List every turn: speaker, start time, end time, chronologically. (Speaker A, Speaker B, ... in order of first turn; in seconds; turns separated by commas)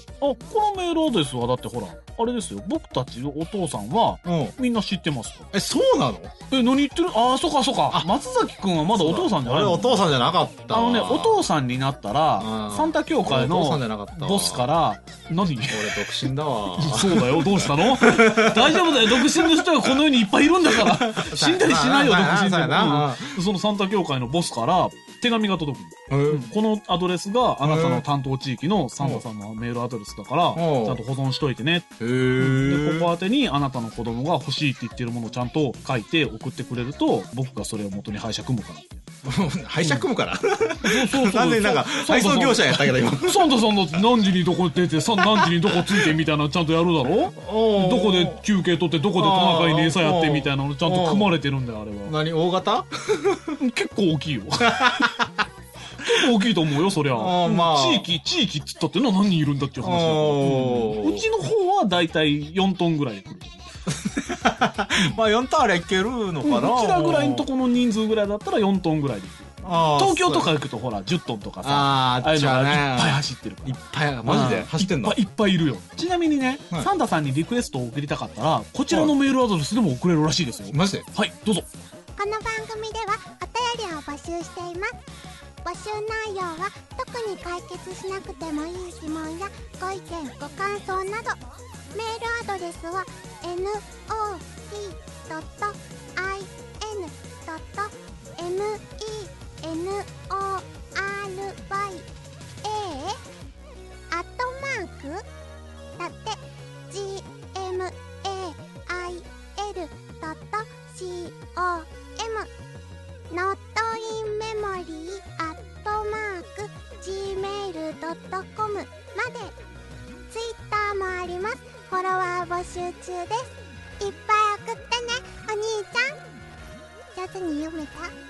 Speaker A: 0.2-5.5, Speaker B: 4.2-4.5, Speaker B: 5.5-6.3, Speaker A: 6.5-10.1, Speaker B: 8.9-11.4, Speaker A: 10.7-15.9, Speaker B: 12.4-14.7, Speaker B: 15.7-19.8, Speaker A: 16.7-39.0, Speaker B: 20.6-23.4, Speaker B: 26.1-26.5, Speaker B: 27.6-28.0, Speaker B: 29.0-29.2, Speaker B: 30.5-31.0, Speaker B: 32.0-33.1, Speaker B: 39.2-43.6, Speaker A: 39.8-40.0, Speaker A: 40.8-52.2, Speaker B: 45.2-45.7, Speaker B: 47.3-48.4, Speaker B: 49.1-51.3, Speaker B: 52.0-53.5, Speaker A: 53.6-55.0, Speaker B: 54.6-55.3, Speaker A: 56.0-63.6, Speaker B: 57.1-58.1, Speaker B: 59.8-61.2, Speaker B: 63.9-67.5, Speaker A: 66.4-81.6, Speaker B: 69.6-70.5, Speaker B: 71.6-75.2, Speaker B: 80.7-81.0, Speaker C: 82.2-84.9, Speaker C: 85.6-91.4, Speaker C: 91.9-102.1, Speaker C: 102.6-103.2, Speaker C: 104.1-105.2, Speaker C: 106.0-112.5, Speaker C: 113.3-119.5, Speaker C: 120.3-126.2, Speaker C: 127.1-128.1